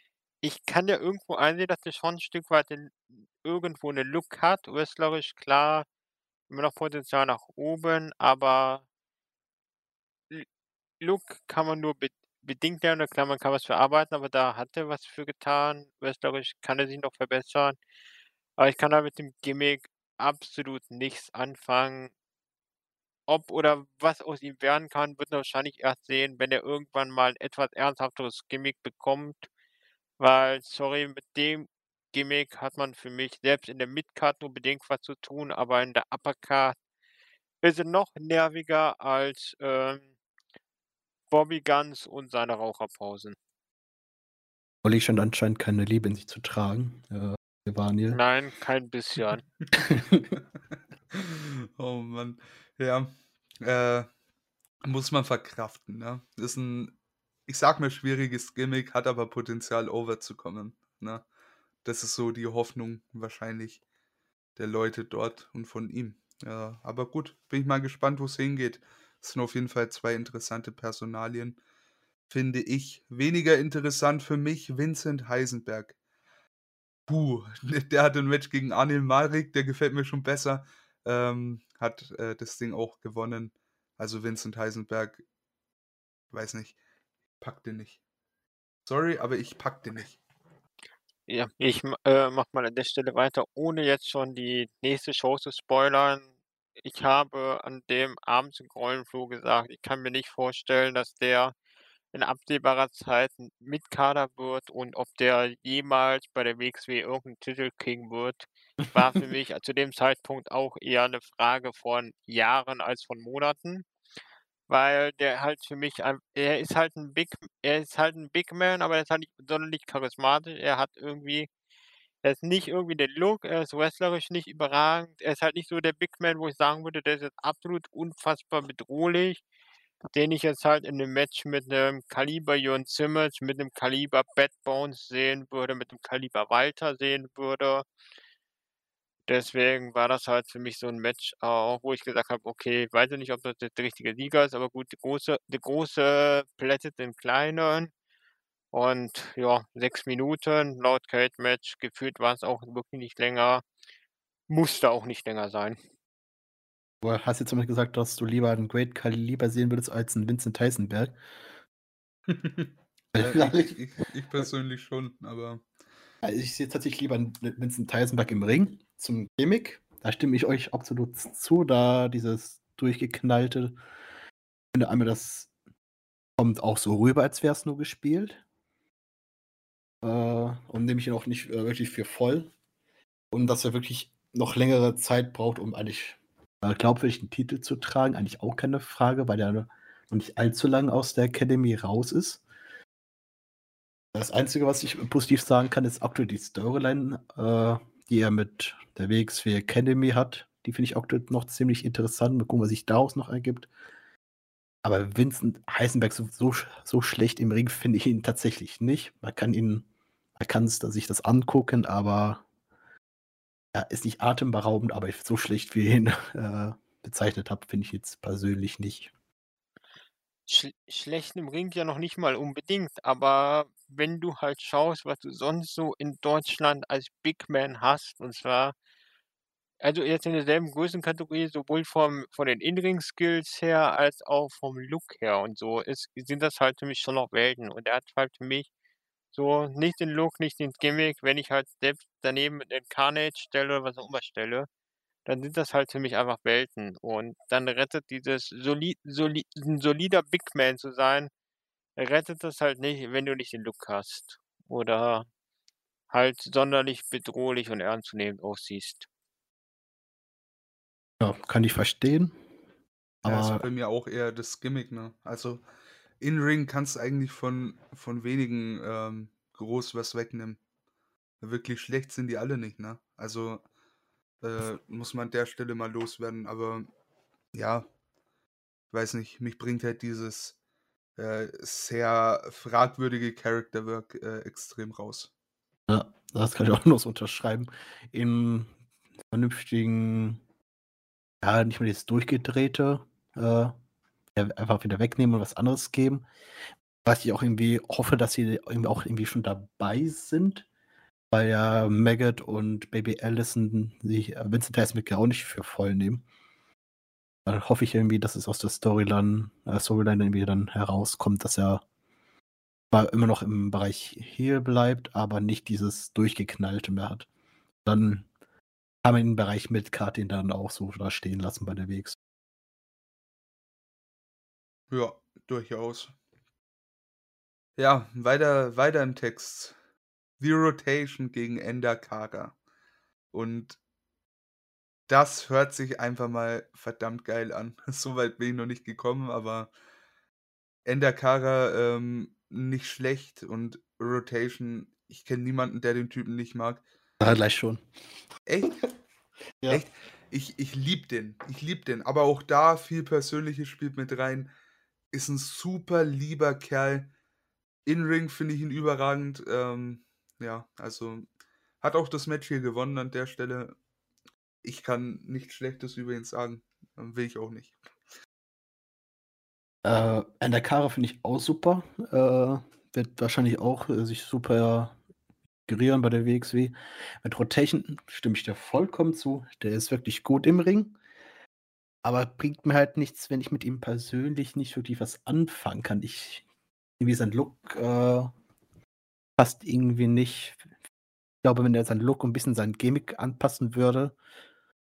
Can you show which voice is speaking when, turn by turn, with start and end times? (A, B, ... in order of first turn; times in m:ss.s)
0:00.4-0:05.8 A
0:06.5-0:08.8 A
0:11.0-0:17.8 A
0:18.6-0:22.1 A
0:23.3-0:29.5 A
0:30.2-0:36.8 A
0:37.6-0:40.1 A
0:41.3-0:43.4 A
0:44.8-0:48.2 B
0:48.1-0:49.4 A
0:49.7-0:50.3 B
0:51.1-0:54.1 C
0:54.8-0:56.9 C
0:57.5-1:01.2 C
1:01.8-1:03.8 C
1:04.6-1:11.6 C
1:12.3-1:16.0 C
1:17.1-1:25.2 C
1:26.3-1:26.7 C
1:27.4-1:28.0 C
1:28.8-1:30.2 C
1:31.3-1:36.3 A
1:36.8-1:41.5 A
1:42.1-1:53.8 A
1:54.7-2:01.5 A
2:02.2-2:09.4 A
2:10.1-2:17.9 A
2:19.3-2:27.9 A
2:28.7-2:33.6 A
2:34.5-2:35.8 A
2:37.0-2:41.1 B
2:42.3-2:45.6 C
2:43.1-2:43.8 B
2:46.2-2:53.7 B
2:54.7-2:55.5 B
2:56.4-2:58.4 B
3:00.0-3:02.5 B
3:03.3-3:12.4 B
3:14.1-3:23.7 B
3:24.8-3:32.4 B
3:33.7-3:39.1 B
3:40.5-3:48.7 A
3:49.8-3:58.7 A
3:59.3-4:04.7 A
4:05.2-4:11.3 A
4:12.0-4:15.3 A
4:16.1-4:19.1 A
4:21.2-4:22.3 B
4:23.2-4:23.6 B
4:23.2-4:25.6 C
4:26.2-4:30.6 C
4:31.4-4:33.6 C
4:34.4-4:36.9 C
4:37.5-4:37.8 C
4:38.9-4:40.6 C
4:41.2-4:45.3 C
4:45.9-4:48.7 B
4:49.3-4:50.4 B
4:51.4-4:53.7 B
4:54.3-4:56.2 B
4:57.0-5:00.6 B
5:01.3-5:06.2 B
5:07.4-5:11.8 B
5:12.9-5:17.3 B
5:17.8-5:18.3 B
5:19.0-5:22.2 B
5:24.9-5:26.1 C
5:27.8-5:29.8 C
5:30.4-5:32.5 C
5:33.3-5:33.8 C
5:35.1-5:39.7 C
5:40.8-5:46.8 C
5:47.2-5:47.8 B
5:48.5-5:48.8 C
5:49.7-5:54.5 C
5:55.1-5:57.1 C
5:57.8-6:01.2 C
6:01.8-6:03.8 C
6:04.6-6:07.8 C
6:09.8-6:15.0 B
6:15.7-6:21.0 B
6:22.0-6:26.4 B
6:27.0-6:28.3 B
6:29.4-6:30.6 B
6:31.4-6:34.1 B